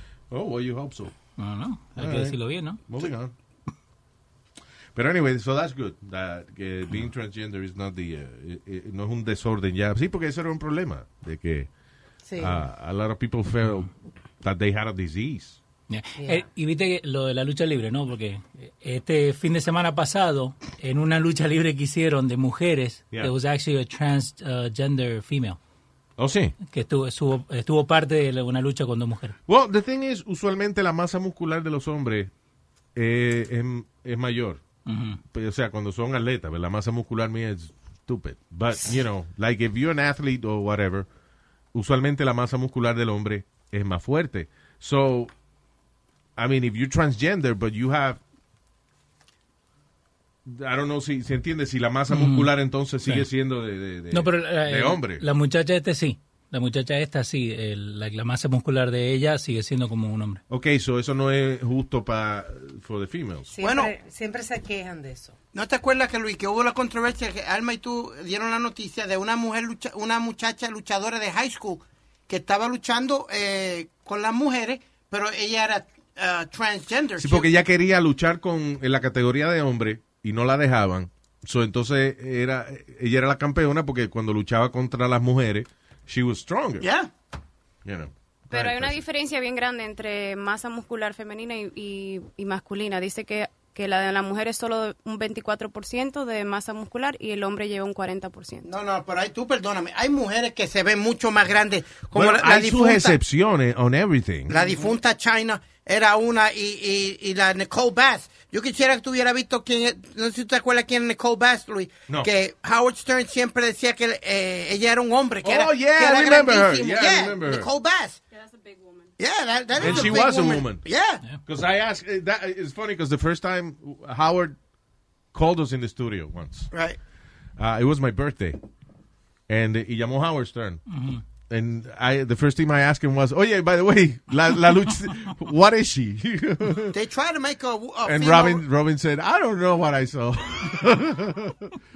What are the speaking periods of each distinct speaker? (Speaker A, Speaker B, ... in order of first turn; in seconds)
Speaker A: 0.3-1.2, 1.9-3.3, 4.9-11.7, 12.4-13.9, 14.4-15.6, 26.2-26.6, 29.5-32.3, 32.9-34.6, 35.3-41.1, 41.7-45.3, 46.4-48.2, 50.5-55.2, 60.5-63.5, 77.2-86.9, 87.8-89.0, 102.1-104.5, 115.4-117.7, 119.8-120.8, 121.4-124.6, 125.3-126.7, 127.6-128.6, 129.5-130.8, 131.5-136.9, 138.0-141.7
Speaker B: 1.4-2.8, 15.9-25.6, 26.6-29.4, 34.9-35.2, 52.1-52.5, 54.1-60.4, 130.9-131.2
Speaker C: 12.2-12.6, 16.2-16.5, 63.5-65.4
Speaker D: 63.6-63.9, 65.5-77.5, 86.8-87.1, 98.6-103.2, 104.5-118.2, 119.2-121.2, 126.7-127.0, 136.9-138.6
Speaker E: 88.5-98.7, 118.3-119.1